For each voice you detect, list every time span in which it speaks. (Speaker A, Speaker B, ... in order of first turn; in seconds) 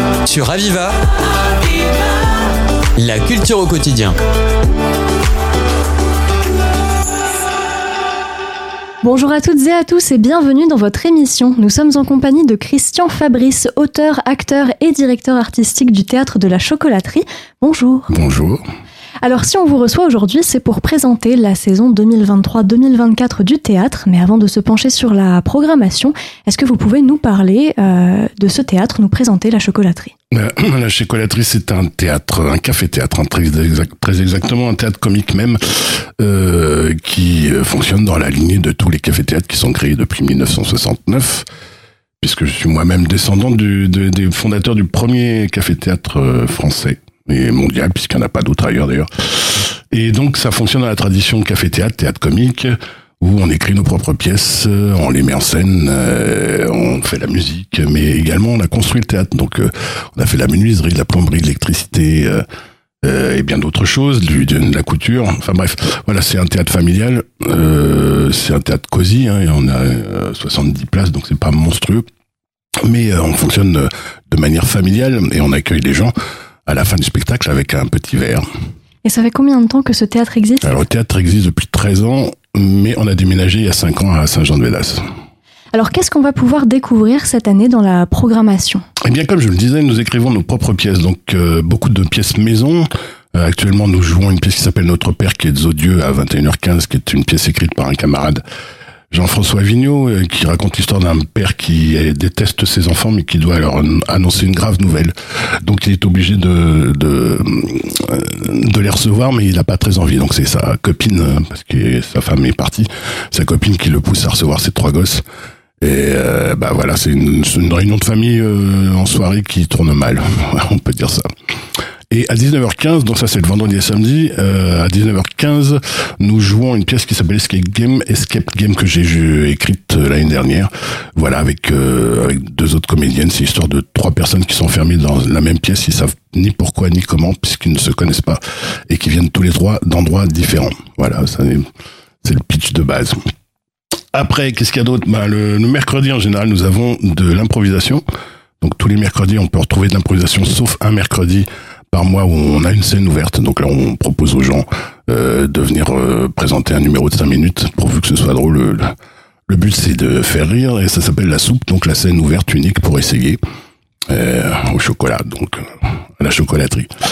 Speaker A: 0.2-1.0, 3.0-4.2
Speaker B: 9.0-18.1, 19.2-30.1, 79.0-80.8, 85.7-88.8
Speaker C: 18.1-18.6, 30.3-41.5, 42.2-62.4, 63.0-72.0, 72.8-76.1, 76.7-78.5, 80.6-85.0, 89.0-98.4, 99.1-115.2, 115.8-121.3, 122.1-141.7, 142.2-143.2, 144.1-148.0, 148.6-158.9, 159.5-163.4, 164.1-166.9